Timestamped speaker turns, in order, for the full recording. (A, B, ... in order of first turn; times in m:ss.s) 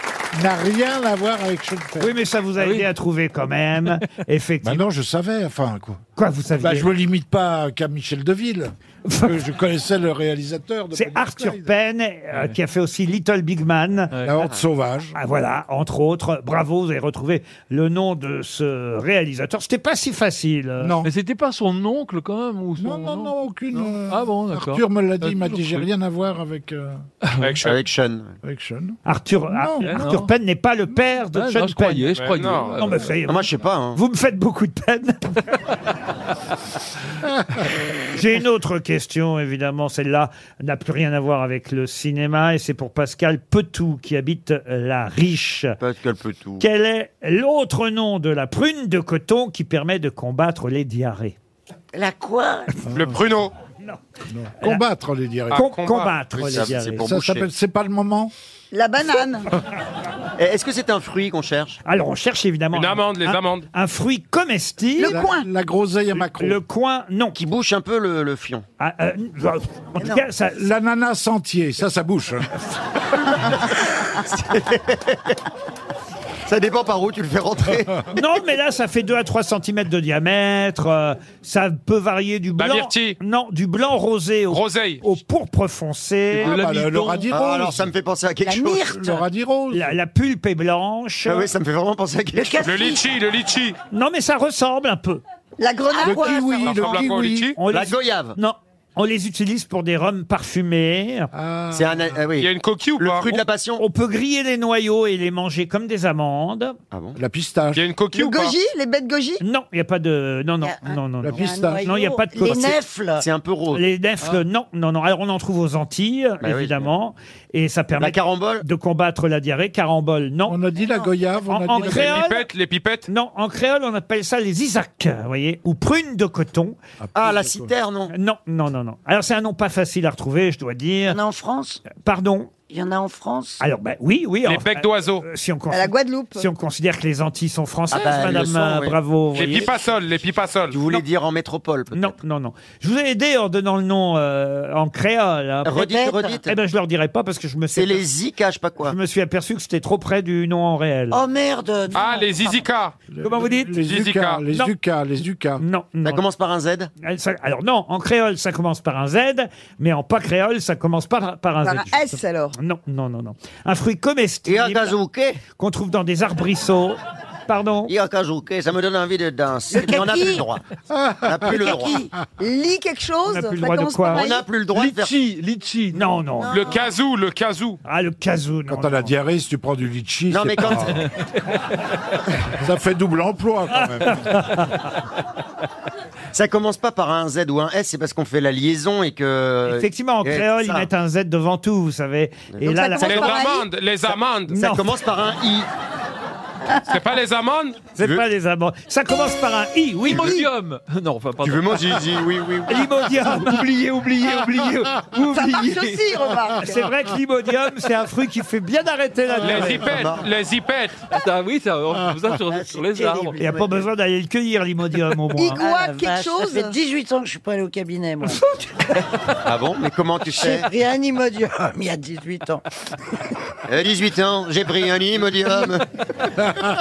0:00.3-0:02.1 A
0:02.0-0:04.8 B
0:02.6-0:02.9 C
0:04.6-0:06.0 A
0:06.2-0:06.9 B
0:06.6-0:11.7 A
0:09.0-0:09.4 B
0:10.9-0:14.1 B
0:14.1-0:14.5 C
0:14.2-0:15.1 A
0:15.1-0:21.0 B
0:20.8-0:21.1 A
0:21.0-0:25.9 C
0:22.8-0:27.0 A
0:27.2-0:27.5 C
0:27.4-0:27.8 D
0:27.6-0:28.4 E
0:28.4-0:29.0 A
0:29.0-0:35.6 B
0:29.5-0:30.0 A
0:29.8-0:30.3 C
0:31.3-0:33.1 C
0:32.1-0:32.8 D
0:33.2-0:34.0 E
0:38.1-0:45.8 B
0:45.8-0:46.6 E
0:46.6-0:51.4 B
0:51.9-0:52.8 F
0:52.9-0:53.2 A
0:52.9-0:53.5 D
0:54.3-0:55.6 A
0:55.5-0:56.2 D
0:55.5-0:57.0 B
0:56.3-0:57.5 E
0:57.0-0:58.3 A
0:58.7-0:59.5 G
1:00.4-1:01.8 E
1:01.8-1:05.2 B
1:02.7-1:03.7 D
1:05.0-1:05.5 G
1:05.1-1:06.6 A
1:06.2-1:07.4 B
1:07.3-1:08.6 E
1:08.8-1:10.6 B
1:10.0-1:10.2 F
1:10.5-1:12.5 A
1:14.2-1:15.4 E
1:16.5-1:18.0 E
1:18.1-1:26.6 B
1:22.6-1:23.2 D
1:24.5-1:25.0 D
1:26.3-1:27.9 A
1:26.3-1:27.3 C
1:27.3-1:29.0 E
1:28.4-1:29.2 F
1:28.9-1:29.9 A
1:29.7-1:31.5 B
1:31.2-1:32.6 E
1:32.3-1:33.1 F
1:32.6-1:33.8 D
1:33.9-1:35.2 B
1:35.6-1:36.9 G
1:35.9-1:36.6 F
1:36.0-1:37.5 A
1:36.6-1:37.6 D
1:37.6-1:41.3 B
1:37.7-1:38.4 E
1:41.3-1:42.2 A
1:41.7-1:43.8 E
1:42.4-1:43.4 D
1:43.8-1:46.8 B
1:46.9-1:47.2 E
1:47.2-1:47.8 A
1:47.7-1:48.6 D
1:48.1-1:49.4 G
1:49.4-1:52.8 B
1:50.6-1:53.2 F
1:51.2-1:51.9 A
1:53.2-1:53.8 E
1:53.7-2:00.6 B
1:56.4-1:56.9 E
1:58.0-1:58.6 E
2:00.5-2:02.2 A
2:01.4-2:02.5 B
2:01.8-2:03.0 D
2:03.1-2:06.8 B
2:07.0-2:07.7 A
2:07.1-2:08.1 E
2:08.1-2:11.2 B
2:11.1-2:11.8 F
2:11.9-2:12.5 B
2:12.7-2:13.6 F
2:13.6-2:19.7 B
2:14.4-2:15.2 D
2:15.7-2:16.4 G
2:17.9-2:19.7 E
2:19.3-2:20.8 D
2:20.7-2:22.2 E
2:21.9-2:25.9 B
2:25.6-2:26.5 E
2:25.7-2:26.4 F
2:26.4-2:28.0 B
2:27.7-2:29.0 E
2:28.8-2:31.2 B
2:31.1-2:32.6 F
2:31.9-2:32.9 D
2:33.1-2:35.6 A
2:33.2-2:33.8 B
2:33.8-2:34.4 D
2:35.6-2:36.2 B
2:36.0-2:36.9 E
2:37.0-2:45.0 B
2:41.6-2:42.5 G
2:44.4-2:45.4 E
2:45.5-2:47.9 B
2:47.9-2:50.6 E
2:49.7-2:50.4 F
2:50.9-2:51.5 A
2:51.2-2:52.1 E
2:51.5-2:52.1 F
2:52.4-2:54.5 G
2:53.2-2:54.3 B
2:54.1-2:55.1 E
2:54.7-2:56.0 C
2:55.9-2:56.6 B
2:56.4-2:56.9 F
2:56.5-2:57.8 D
2:57.8-2:59.1 B
2:58.7-3:01.0 A
3:00.3-3:01.0 E
3:02.6-3:04.3 A
3:03.7-3:04.8 B
3:06.3-3:10.9 E
3:09.6-3:13.4 B
3:12.6-3:13.7 G
3:13.0-3:14.6 D
3:14.5-3:14.8 B
3:14.5-3:15.7 E
3:16.8-3:17.9 D
3:18.0-3:20.4 B
3:18.0-3:18.2 E
3:20.0-3:22.1 C
3:20.2-3:20.5 G
3:21.4-3:22.9 E
3:22.7-3:23.7 B
3:23.1-3:26.1 C
3:25.2-3:26.9 G
3:26.6-3:29.9 B
3:29.4-3:31.0 D
3:29.8-3:30.3 E
3:31.1-3:33.4 C
3:32.4-3:33.8 F
3:33.4-3:35.6 B
3:35.3-3:36.8 G
3:35.6-3:38.4 F
3:39.4-3:40.7 E
3:40.3-3:42.6 F
3:43.7-3:45.8 E